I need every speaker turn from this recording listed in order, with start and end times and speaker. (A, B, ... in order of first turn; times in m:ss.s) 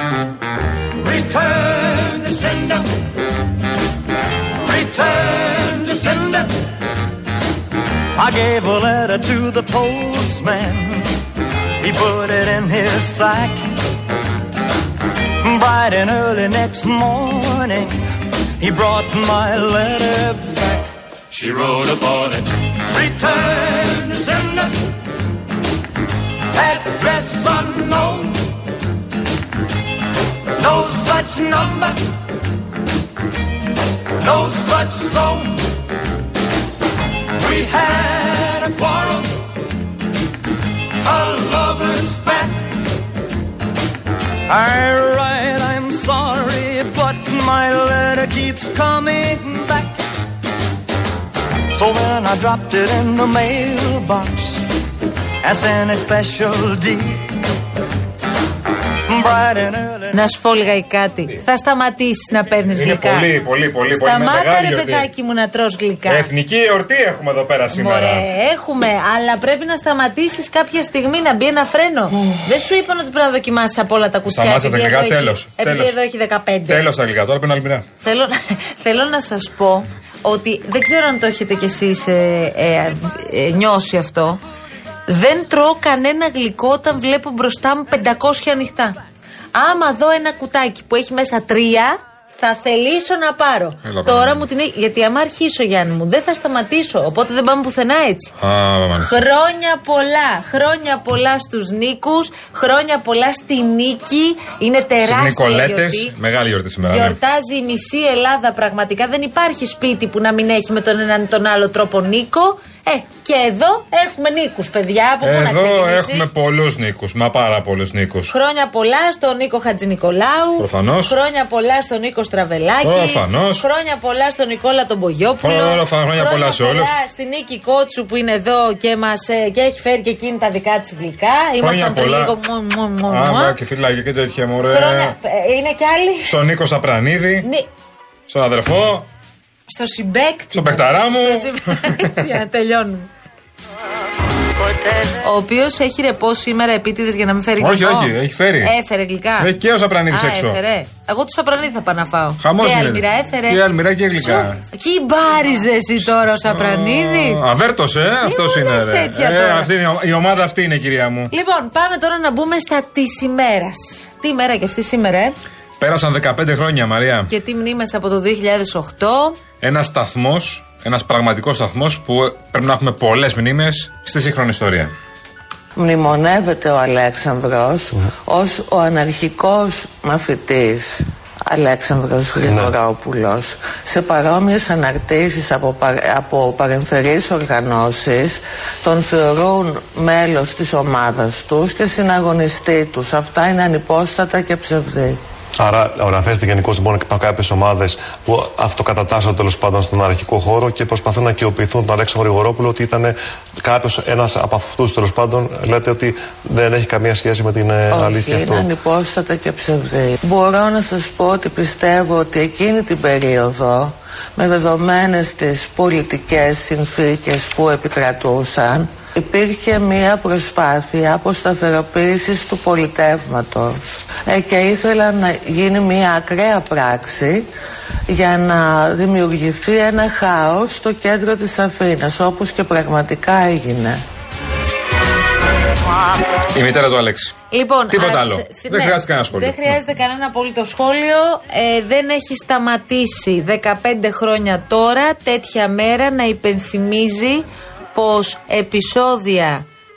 0:01.0-0:02.9 A
0:04.6-0:06.5 A
0:08.1-0:11.2 A
0:11.8-0:13.7 A
0:15.4-0:18.0 A
0:18.6-0:24.8 A
0:26.5-0:28.4 A
0:30.6-0:32.0 A
0:34.2-0:35.5 A
0:37.4-0:39.3 A
0:41.0-0:42.8 A
0:44.5-0:50.0 A
0:51.7-0:54.6 A
0:55.4-0:57.3 A
0:59.1-1:00.3 A
1:00.1-1:03.3 B
1:02.7-1:05.1 C
1:03.9-1:06.3 B
1:06.1-1:08.2 C
1:07.7-1:16.8 B
1:14.3-1:15.9 C
1:16.7-1:17.8 C
1:18.0-1:24.4 B
1:25.1-1:29.0 B
1:29.5-1:38.3 B
1:33.8-1:34.4 C
1:38.4-1:39.2 C
1:39.0-1:46.1 B
1:45.0-1:47.2 C
1:46.8-1:56.3 B
1:55.2-1:58.3 C
1:58.3-2:13.6 B
2:00.6-2:01.1 C
2:02.8-2:03.6 C
2:05.4-2:06.9 C
2:11.6-2:12.3 C
2:13.1-2:15.1 C
2:14.6-2:16.4 B
2:16.2-2:17.4 C
2:17.4-2:17.7 B
2:18.3-2:19.1 C
2:19.7-2:23.1 B
2:20.5-2:22.1 C
2:25.2-2:29.5 B
2:27.6-2:28.7 C
2:29.4-2:30.6 C
2:30.1-2:33.6 B
2:32.4-2:34.6 C
2:34.2-2:37.4 B
2:36.3-2:41.3 C
2:38.2-2:39.7 B
2:41.3-2:45.3 B
2:45.8-2:47.3 C
2:47.3-2:49.4 B
2:49.6-2:54.9 C
2:55.7-3:15.2 D
3:02.4-3:02.8 E
3:15.6-3:28.7 E
3:27.9-3:47.5 D
3:48.1-3:54.0 D
3:56.5-3:57.3 C
3:57.5-4:09.6 B
3:57.9-3:59.8 C